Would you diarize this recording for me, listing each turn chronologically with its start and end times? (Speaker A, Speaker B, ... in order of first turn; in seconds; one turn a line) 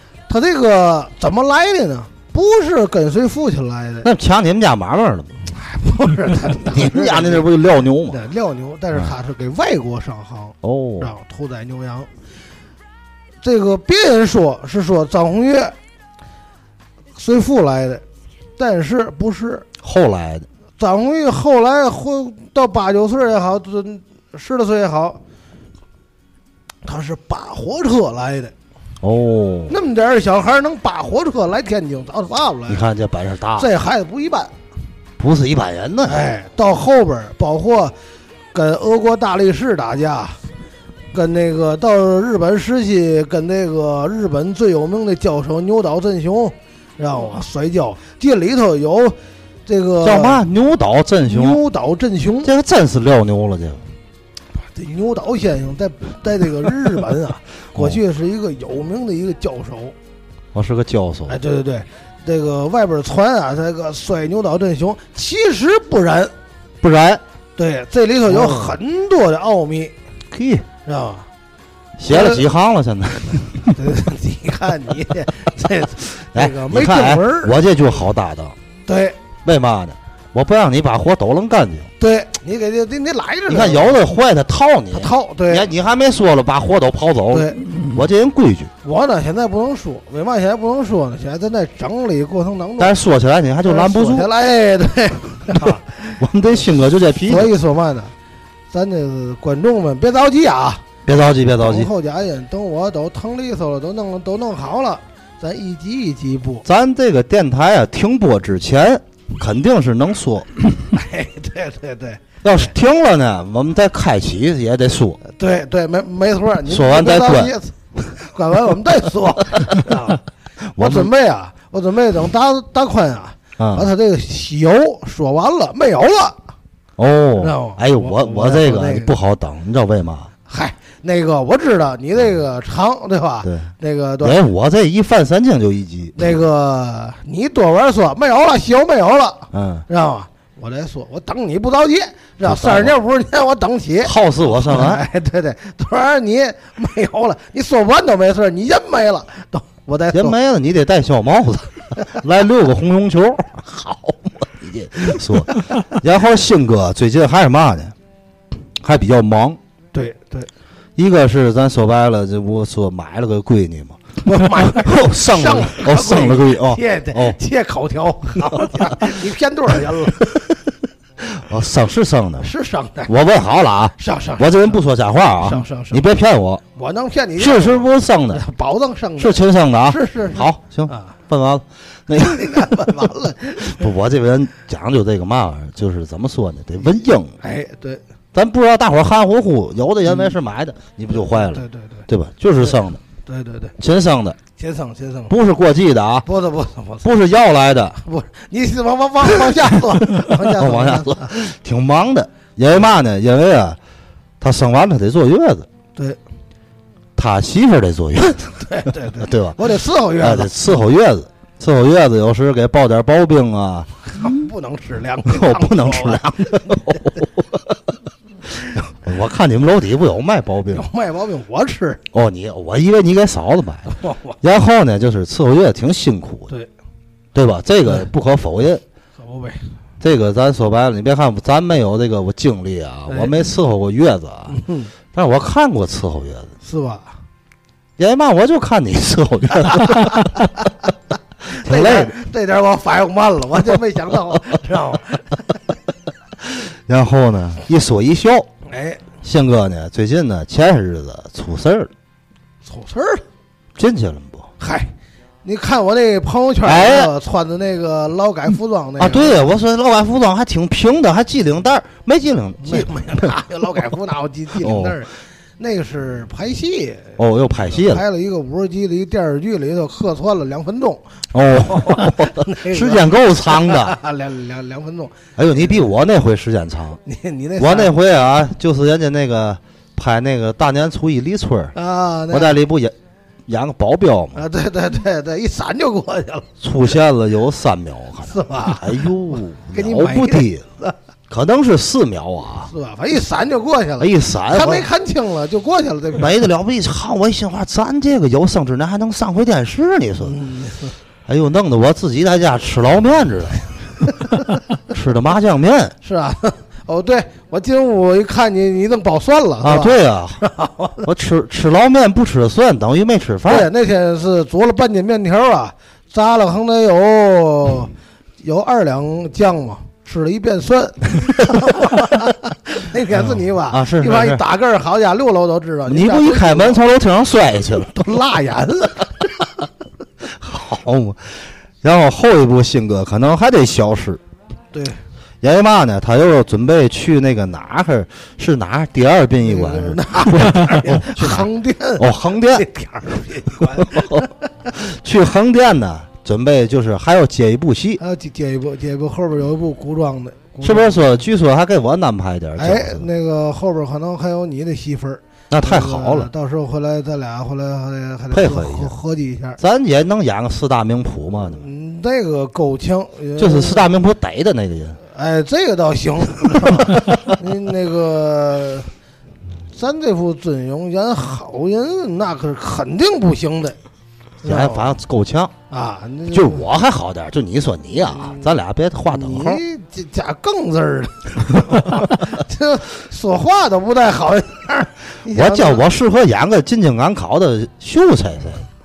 Speaker A: 0.3-4.1
Speaker B: 4.0-5.3
Speaker A: 5.5-7.5
Speaker B: 6.7-8.2
Speaker A: 8.1-12.1
Speaker B: 10.6-11.1
Speaker A: 13.4-15.7
Speaker A: 17.1-18.0
Speaker A: 18.6-19.7
Speaker B: 19.8-20.5
Speaker A: 20.8-25.2
Speaker A: 26.8-28.5
Speaker B: 29.0-29.7
Speaker A: 29.7-32.8
Speaker B: 32.7-33.7
Speaker A: 33.5-34.5
Speaker B: 35.2-36.3
Speaker A: 36.0-37.9
Speaker A: 38.5-40.4
Speaker A: 41.1-50.4
Speaker B: 50.0-51.6
Speaker A: 51.3-52.5
Speaker B: 52.4-53.8
Speaker A: 54.7-59.9
Speaker B: 60.5-61.4
Speaker A: 61.3-66.3
Speaker B: 66.8-67.2
Speaker A: 67.6-69.9
Speaker B: 68.3-68.8
Speaker B: 70.3-70.7
Speaker A: 70.8-71.3
Speaker B: 72.0-73.8
Speaker A: 72.1-72.4
Speaker A: 73.7-77.6
Speaker B: 76.3-78.5
Speaker A: 78.9-79.2
Speaker B: 79.4-81.9
Speaker A: 82.0-84.0
Speaker B: 83.5-88.7
Speaker A: 84.9-85.7
Speaker A: 87.3-87.6
Speaker A: 88.8-92.9
Speaker B: 92.8-94.3
Speaker A: 93.6-96.1
Speaker B: 95.6-97.5
Speaker A: 97.2-98.1
Speaker A: 98.7-100.8
Speaker B: 101.0-101.9
Speaker A: 101.5-106.6
Speaker B: 106.6-110.5
Speaker A: 110.9-112.2
Speaker B: 112.4-115.2
Speaker A: 115.3-120.2
Speaker B: 116.7-117.5
Speaker B: 120.8-121.1
Speaker A: 120.8-126.4
Speaker B: 123.6-123.9
Speaker B: 127.0-130.3
Speaker A: 127.4-129.1
Speaker A: 130.5-134.4
Speaker B: 133.4-133.7
Speaker B: 134.2-136.2
Speaker A: 136.2-150.3
Speaker B: 139.5-139.8
Speaker B: 142.4-142.9
Speaker B: 144.0-145.0
Speaker B: 150.1-157.9
Speaker B: 158.8-159.6
Speaker A: 159.9-160.5
Speaker B: 160.9-164.0
Speaker A: 164.2-170.3
Speaker B: 164.5-167.4
Speaker B: 171.2-172.5
Speaker A: 172.4-173.1
Speaker B: 173.1-176.6
Speaker A: 174.0-174.8
Speaker A: 175.4-176.0
Speaker A: 176.8-181.2
Speaker B: 177.4-178.4
Speaker B: 179.2-182.9
Speaker A: 182.2-183.8
Speaker B: 183.7-187.3
Speaker A: 187.4-188.0
Speaker B: 188.3-193.0
Speaker A: 191.2-192.1
Speaker A: 193.2-193.7
Speaker B: 193.8-194.4
Speaker A: 194.6-195.3
Speaker B: 195.3-196.2
Speaker A: 196.2-197.1
Speaker B: 197.0-198.0
Speaker A: 198.0-201.3
Speaker B: 200.2-203.8
Speaker B: 204.4-205.7
Speaker B: 207.2-208.6
Speaker A: 208.6-210.7
Speaker B: 209.1-209.6
Speaker B: 210.2-214.3
Speaker A: 214.1-217.0
Speaker B: 215.2-217.6
Speaker B: 218.7-220.9
Speaker A: 220.7-222.0
Speaker B: 222.1-226.5
Speaker A: 223.9-224.4
Speaker B: 227.3-228.8
Speaker A: 229.2-229.6
Speaker B: 230.0-234.6
Speaker A: 233.1-233.3
Speaker A: 234.5-234.9
Speaker B: 235.1-236.5
Speaker A: 236.6-237.1
Speaker B: 238.0-240.5
Speaker A: 241.5-245.6
Speaker B: 241.6-242.1
Speaker B: 246.9-248.5
Speaker A: 248.7-249.0
Speaker B: 249.2-251.9
Speaker A: 252.6-253.2
Speaker B: 253.8-254.5
Speaker A: 254.6-254.9
Speaker A: 255.4-259.5
Speaker B: 256.6-257.1
Speaker B: 259.0-263.3
Speaker A: 262.6-275.7
Speaker B: 264.6-265.0
Speaker B: 267.2-268.0
Speaker B: 271.3-274.0
Speaker B: 275.4-277.0
Speaker A: 277.1-277.9
Speaker B: 277.6-281.7
Speaker A: 281.7-282.6
Speaker B: 282.3-282.9
Speaker B: 283.5-284.4
Speaker A: 284.3-286.5
Speaker B: 286.6-290.6
Speaker A: 288.2-289.0
Speaker A: 289.7-290.9
Speaker B: 291.3-292.7
Speaker A: 292.7-296.3
Speaker B: 294.0-294.9
Speaker B: 296.1-300.4
Speaker A: 300.2-300.9
Speaker B: 301.3-303.6
Speaker B: 304.9-305.9
Speaker A: 306.0-311.1
Speaker B: 309.6-310.4
Speaker B: 311.0-313.7
Speaker A: 313.4-326.8
Speaker B: 323.1-324.4
Speaker B: 325.9-328.1
Speaker A: 327.9-329.2
Speaker B: 330.3-334.2
Speaker A: 334.7-335.0
Speaker B: 335.4-342.6
Speaker A: 339.4-344.4
Speaker B: 343.7-348.0
Speaker A: 348.0-351.0
Speaker B: 350.6-353.1
Speaker A: 352.6-359.6
Speaker B: 355.5-356.3
Speaker B: 358.3-358.9
Speaker B: 359.6-361.6
Speaker A: 361.6-363.9
Speaker B: 363.4-365.0
Speaker A: 365.1-368.9
Speaker A: 369.7-373.8
Speaker A: 374.4-374.9
Speaker B: 374.4-375.5
Speaker A: 375.7-376.6
Speaker B: 376.3-379.6
Speaker A: 378.1-378.5
Speaker A: 379.1-385.9
Speaker B: 385.3-388.6